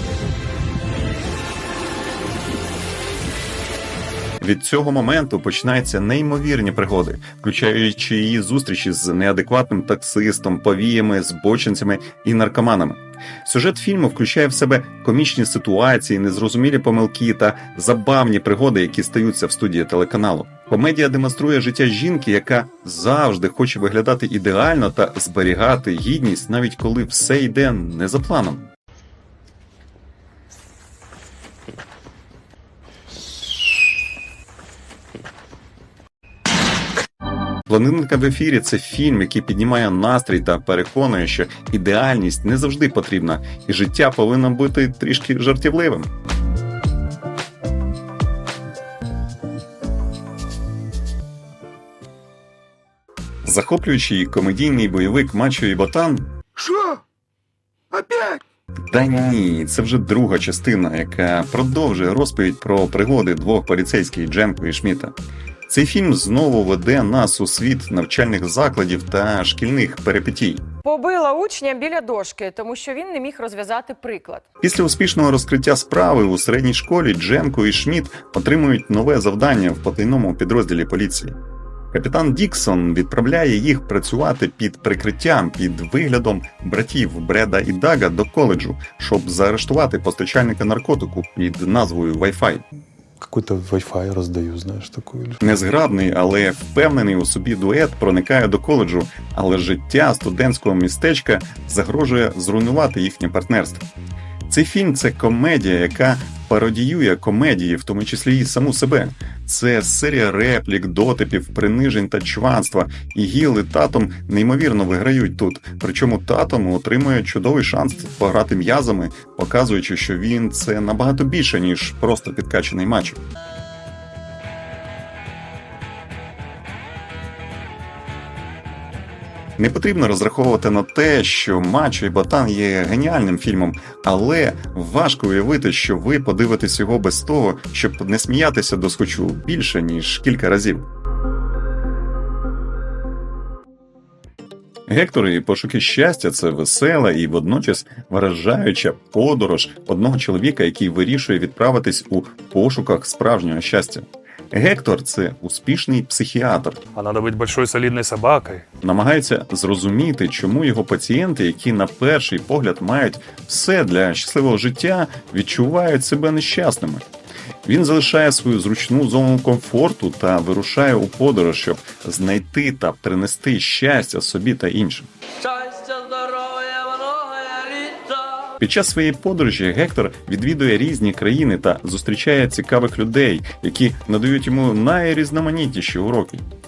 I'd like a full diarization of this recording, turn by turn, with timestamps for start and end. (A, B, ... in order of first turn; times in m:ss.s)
0:04.4-0:28.7 A
0:37.7-0:46.1 A
0:53.4-0:56.3 A
0:58.0-0:58.4 A
0:58.9-1:05.1 A
1:05.7-1:10.6 A
1:10.8-1:14.4 B
1:14.6-1:21.3 A
1:21.9-1:32.6 A
1:33.2-1:35.4 C
1:35.4-1:43.8 A
1:44.5-2:03.2 A
2:09.6-2:20.8 A
2:24.9-2:36.8 A
2:36.9-2:38.6 C
2:38.8-2:47.0 A
2:47.6-2:55.1 A
2:55.4-2:58.4 D
2:58.6-3:06.4 A